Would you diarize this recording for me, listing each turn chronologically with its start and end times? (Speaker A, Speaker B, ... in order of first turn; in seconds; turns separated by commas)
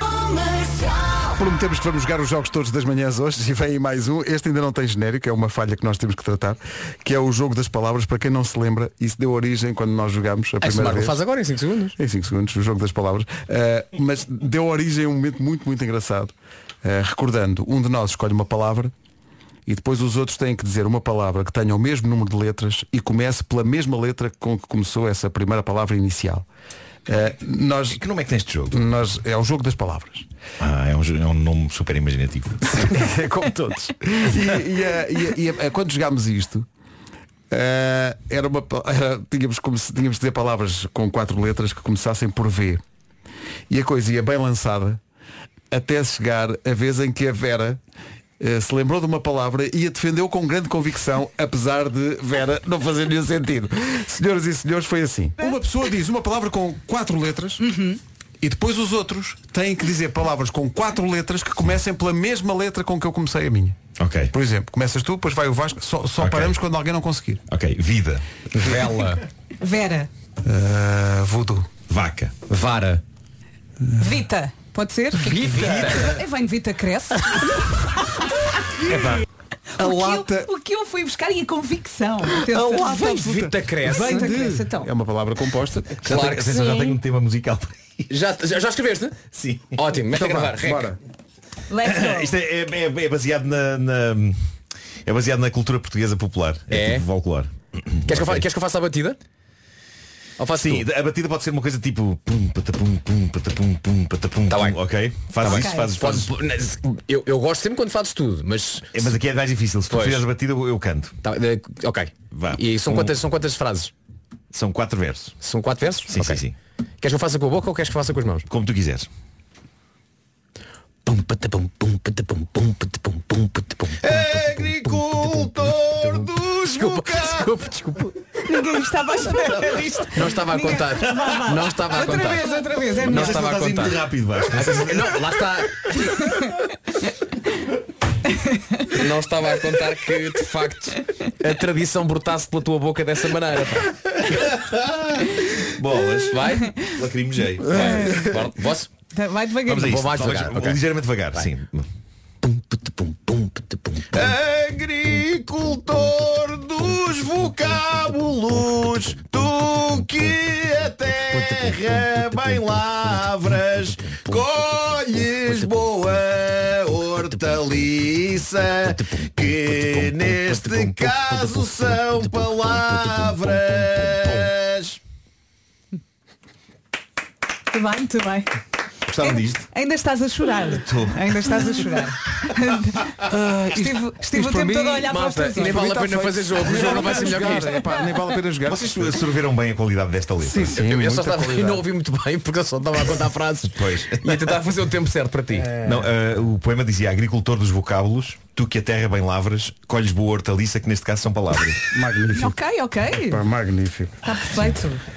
Speaker A: 1.2-11.2, Speaker B: 10.6-11.9, Speaker A: 12.0-18.9, Speaker A: 19.6-26.4, Speaker A: 27.1-28.0, Speaker C: 27.9-28.8, Speaker A: 28.7-30.2, Speaker C: 30.6-32.6, Speaker A: 32.7-36.7, Speaker A: 37.5-42.8, Speaker A: 43.7-45.0, Speaker A: 45.7-47.8, Speaker A: 48.4-57.6, Speaker D: 57.6-58.0, Speaker A: 58.4-63.8, Speaker C: 64.0-64.3, Speaker A: 64.3-67.4, Speaker C: 66.2-66.6, Speaker C: 67.5-68.2, Speaker B: 68.5-69.2, Speaker D: 69.6-70.1, Speaker A: 70.4-71.7, Speaker C: 71.9-72.3, Speaker B: 72.5-73.0, Speaker D: 74.0-75.4, Speaker B: 75.2-76.2, Speaker A: 75.4-75.9, Speaker D: 76.0-78.2, Speaker A: 78.8-79.2, Speaker A: 79.8-80.5, Speaker D: 79.8-83.3, Speaker B: 82.5-84.3, Speaker A: 82.6-86.2, Speaker D: 83.8-84.9, Speaker B: 86.0-87.0, Speaker C: 86.0-88.0, Speaker B: 88.1-90.9, Speaker C: 89.3-89.8, Speaker A: 90.1-91.0, Speaker D: 91.7-92.3, Speaker C: 91.8-94.4, Speaker C: 95.0-98.4, Speaker B: 96.7-97.0, Speaker B: 98.0-99.2, Speaker B: 100.4-100.9, Speaker C: 100.5-106.3, Speaker B: 104.5-109.1, Speaker D: 105.5-105.9, Speaker C: 108.9-111.2, Speaker B: 109.9-110.3, Speaker B: 111.2-113.9, Speaker C: 112.3-113.2, Speaker C: 114.5-115.3, Speaker B: 115.4-116.4, Speaker C: 116.1-116.5, Speaker B: 117.0-118.5, Speaker C: 118.5-119.1, Speaker B: 121.0-128.2, Speaker C: 124.0-125.9, Speaker C: 126.5-127.0, Speaker D: 128.4-133.3, Speaker B: 130.1-135.9, Speaker C: 132.9-135.3, Speaker D: 138.4-139.0, Speaker B: 138.9-143.9, Speaker C: 144.4-145.2, Speaker C: 145.7-147.9, Speaker B: 146.3-146.7, Speaker B: 147.7-148.9, Speaker D: 147.8-148.3, Speaker D: 149.1-149.9, Speaker B: 149.7-150.8, Speaker C: 149.7-151.8, Speaker B: 152.4-154.3, Speaker E: 154.3-168.6, Speaker B: 161.3-162.7, Speaker B: 164.0-166.1, Speaker B: 167.5-167.8, Speaker B: 168.8-174.4, Speaker C: 169.4-170.1, Speaker E: 170.3-175.0, Speaker D: 177.7-178.5, Speaker C: 179.1-179.7, Speaker D: 179.2-183.2, Speaker C: 180.8-181.8, Speaker A: 183.2-189.2, Speaker D: 183.7-185.8, Speaker B: 185.1-187.8, Speaker C: 188.6-190.7, Speaker A: 190.4-191.8, Speaker B: 190.7-196.0, Speaker C: 193.7-194.4, Speaker C: 195.8-201.8, Speaker A: 201.9-202.6, Speaker D: 202.3-203.4, Speaker A: 203.1-204.2, Speaker D: 204.2-205.0